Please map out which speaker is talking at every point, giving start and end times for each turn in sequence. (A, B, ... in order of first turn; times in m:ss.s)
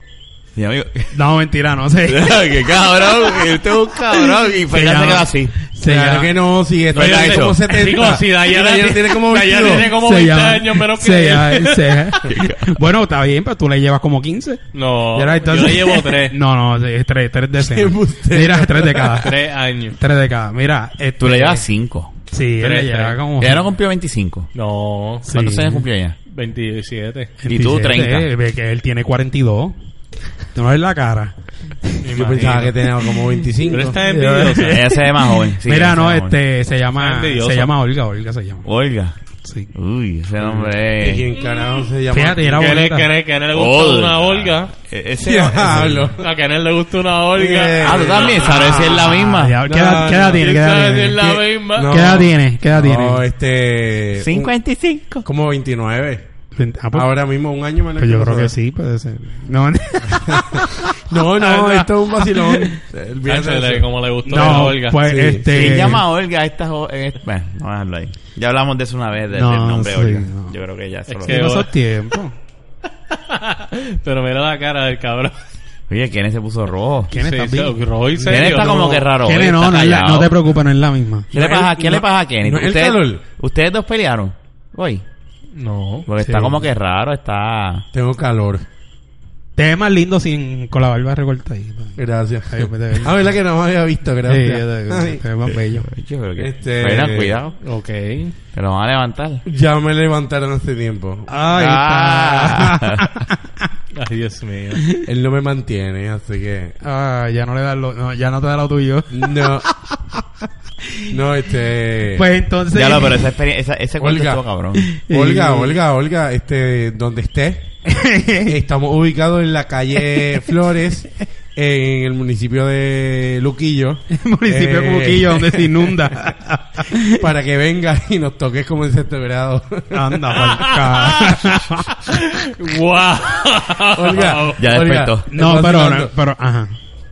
0:00.6-0:01.2 A
0:01.1-0:02.5 B
0:02.0-0:05.5 A
0:04.3-0:06.3 B
0:05.8-0:09.9 C
0:06.9-0:07.7 A
0:06.9-0:12.1 D
0:09.8-0:19.4 B
0:12.2-0:12.6 A
0:14.7-0:16.3 D
0:17.6-0:19.3 C
0:19.2-0:20.0 D
0:20.0-0:21.6 B
0:21.2-0:22.1 A
0:22.3-0:23.6 B
0:22.6-0:23.2 D
0:23.4-0:24.5 A
0:24.5-0:25.3 D
0:25.2-0:25.8 B
0:25.3-0:26.2 A
0:26.3-0:27.3 D
0:27.4-0:29.8 B
0:27.4-0:28.3 A
0:30.5-0:32.5 B
0:32.0-0:32.7 D
0:32.1-0:34.0 C
0:33.6-0:34.8 D
0:33.9-0:38.7 B
0:34.6-0:36.4 A
0:37.0-0:37.7 D
0:38.6-0:39.1 A
0:39.4-0:39.7 B
0:39.7-0:41.3 A
0:40.4-0:42.7 C
0:41.4-0:41.8 D
0:42.1-0:43.1 B
0:42.6-0:44.7 D
0:43.5-0:46.1 A
0:45.2-0:46.2 C
0:46.2-0:48.8 D
0:47.3-0:49.1 C
0:47.8-0:49.6 A
0:48.4-0:53.2 B
0:49.6-0:50.6 C
0:50.1-0:52.2 D
0:51.2-0:54.5 C
0:54.2-0:55.2 A
0:55.2-0:56.2 C
0:56.6-0:57.1 B
0:56.9-0:58.5 C
0:58.0-1:02.8 B
1:00.1-1:03.9 C
1:03.2-1:05.1 D
1:04.2-1:06.0 B
1:04.4-1:06.0 C
1:05.5-1:11.4 A
1:09.3-1:10.5 B
1:11.1-1:11.7 D
1:11.2-1:12.3 B
1:13.1-1:15.4 D
1:15.9-1:17.1 A
1:17.1-1:17.8 B
1:17.1-1:19.0 D
1:18.2-1:20.3 A
1:18.2-1:18.7 C
1:19.2-1:21.3 B
1:21.3-1:23.2 C
1:21.3-1:25.0 A
1:25.6-1:26.1 D
1:26.1-1:27.8 A
1:26.2-1:26.6 B
1:27.9-1:28.6 C
1:29.6-1:33.3 B
1:32.0-1:35.2 C
1:34.2-1:35.9 B
1:35.8-1:37.6 A
1:36.4-1:37.4 C
1:37.6-1:38.3 D
1:38.5-1:39.4 A
1:39.5-1:41.3 C
1:41.3-1:43.7 B
1:41.5-1:43.2 A
1:43.9-1:44.8 D
1:44.8-1:45.0 B
1:45.0-1:46.8 C
1:46.8-1:50.2 B
1:49.1-1:49.7 C
1:50.8-1:51.1 B
1:51.1-1:52.3 C
1:52.1-1:53.3 B
1:52.7-1:54.9 A
1:54.0-1:54.4 C
1:54.8-1:55.8 B
1:55.1-1:57.7 C
1:57.8-1:58.6 B
1:58.4-2:06.1 C
2:00.1-2:00.4 B
2:04.1-2:07.3 B
2:07.1-2:10.6 C
2:09.9-2:11.9 B
2:10.4-2:14.7 D
2:14.0-2:16.1 C
2:14.6-2:15.3 A
2:15.3-2:16.8 B